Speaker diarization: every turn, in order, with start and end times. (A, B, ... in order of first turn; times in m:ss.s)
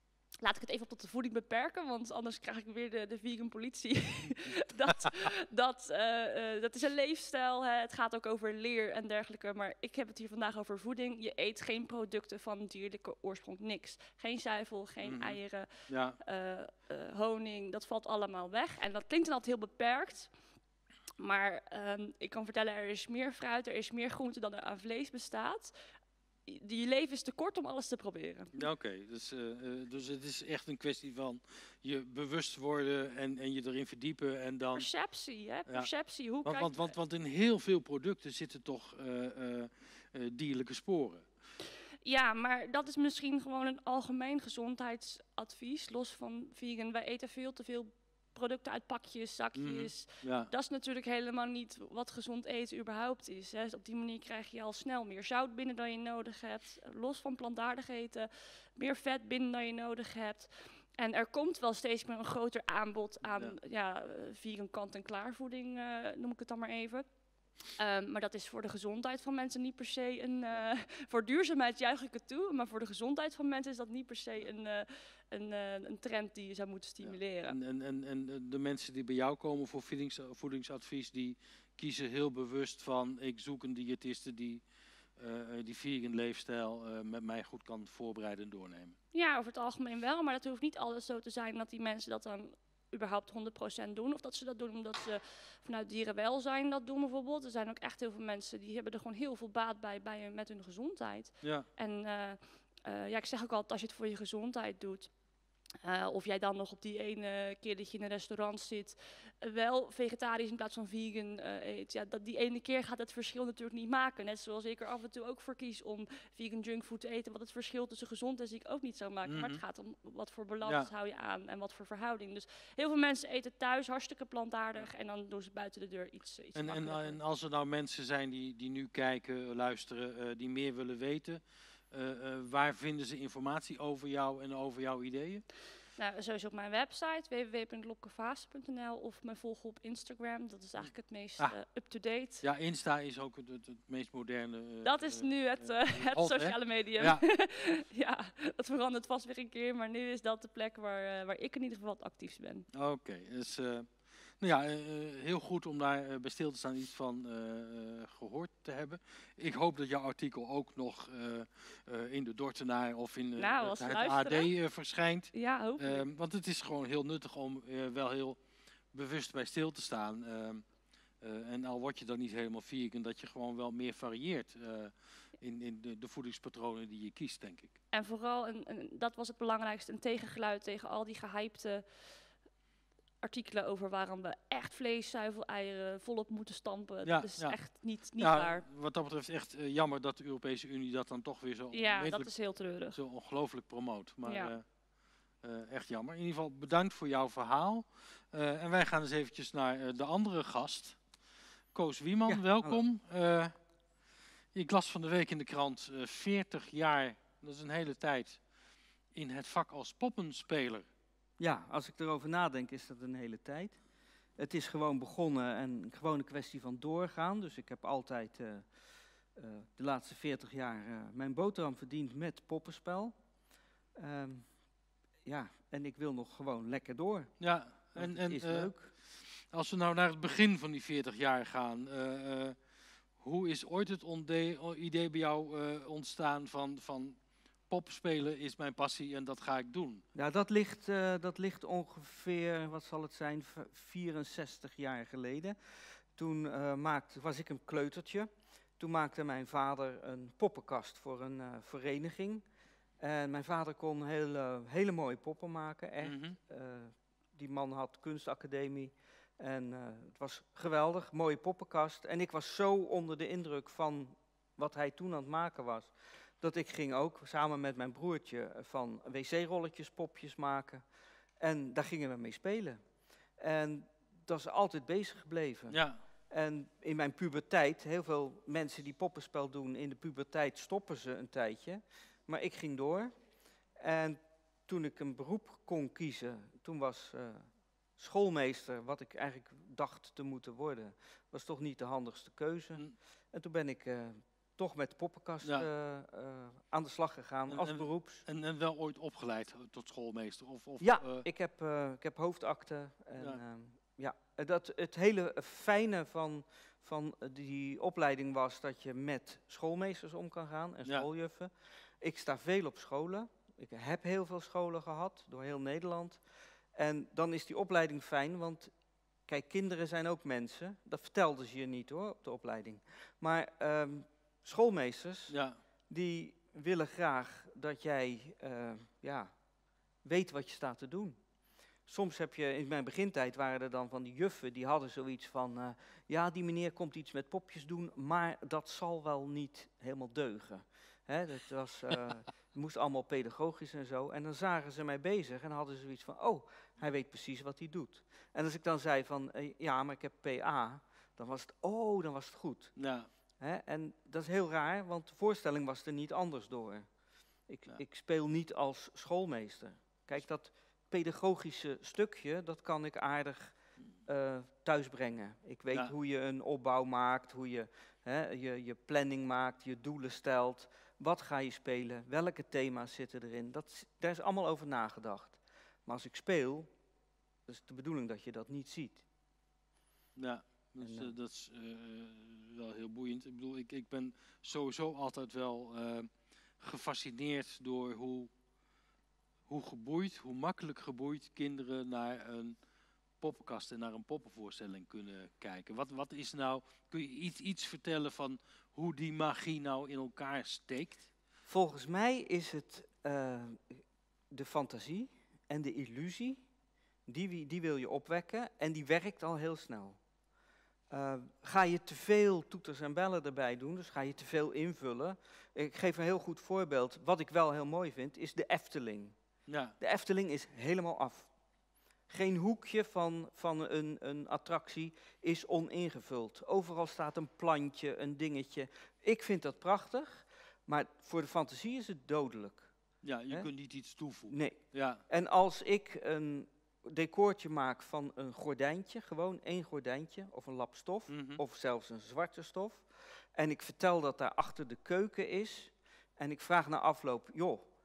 0:00.4-0:20.3 A
0:15.0-0:16.2 B
0:21.2-0:25.8 A
0:26.5-0:28.5 A
0:28.5-0:34.9 B
0:34.8-0:37.0 A
0:36.4-0:41.3 B
0:42.0-1:17.6 A
0:49.6-0:50.5 B
1:03.3-1:03.6 B
1:17.0-1:24.6 B
1:25.2-1:29.0 B
1:29.1-1:45.1 A
1:41.4-1:41.7 B
1:45.8-2:07.2 A
1:59.3-1:59.6 B
2:06.6-2:15.4 B
2:16.0-2:22.4 A
2:20.8-2:21.6 B
2:22.4-2:27.2 B
2:24.8-2:32.7 A
2:32.7-2:48.4 B
2:43.4-2:44.5 A
2:45.3-2:46.0 A
2:48.9-2:50.6 B
2:51.2-2:57.8 B
2:57.9-3:02.2 A
3:03.2-3:08.6 A
3:07.0-3:14.6 B
3:11.7-3:13.0 A
3:14.3-3:14.6 A
3:15.4-3:21.0 B
3:21.7-3:23.5 B
3:22.3-3:22.8 C
3:24.5-3:28.4 B
3:29.1-3:30.9 B
3:31.4-3:33.8 C
3:34.4-3:38.7 C
3:39.4-3:43.2 C
3:43.9-3:44.6 C
3:45.2-3:48.9 C
3:47.4-3:52.6 B
3:53.2-3:57.2 B
3:57.7-4:00.0 B
4:00.2-4:12.5 C
4:13.0-4:30.8 C
4:16.0-4:16.4 B
4:31.4-4:32.8 C
4:33.4-4:43.1 C
4:35.7-4:36.0 B
4:43.8-4:58.2 C
4:55.4-4:55.7 B
4:57.5-5:01.3 B
5:00.8-5:16.2 C
5:16.7-5:18.7 C
5:19.3-5:29.4 C
5:25.3-5:25.6 B
5:30.0-5:31.2 C
5:31.9-5:52.8 C
5:52.8-5:53.1 B
5:53.4-5:56.9 C
5:57.5-6:16.7 C
6:17.5-6:19.0 C
6:20.2-6:28.3 B
6:20.8-6:21.2 C
6:29.5-6:32.6 B
6:33.2-6:41.1 B
6:41.5-6:46.5 C
6:47.1-6:50.0 C
6:50.9-6:59.2 C
6:59.5-6:59.8 B
6:59.8-7:01.3 C
7:02.1-7:12.7 C
7:13.0-7:15.0 B
7:14.3-7:27.7 C
7:21.1-7:21.4 B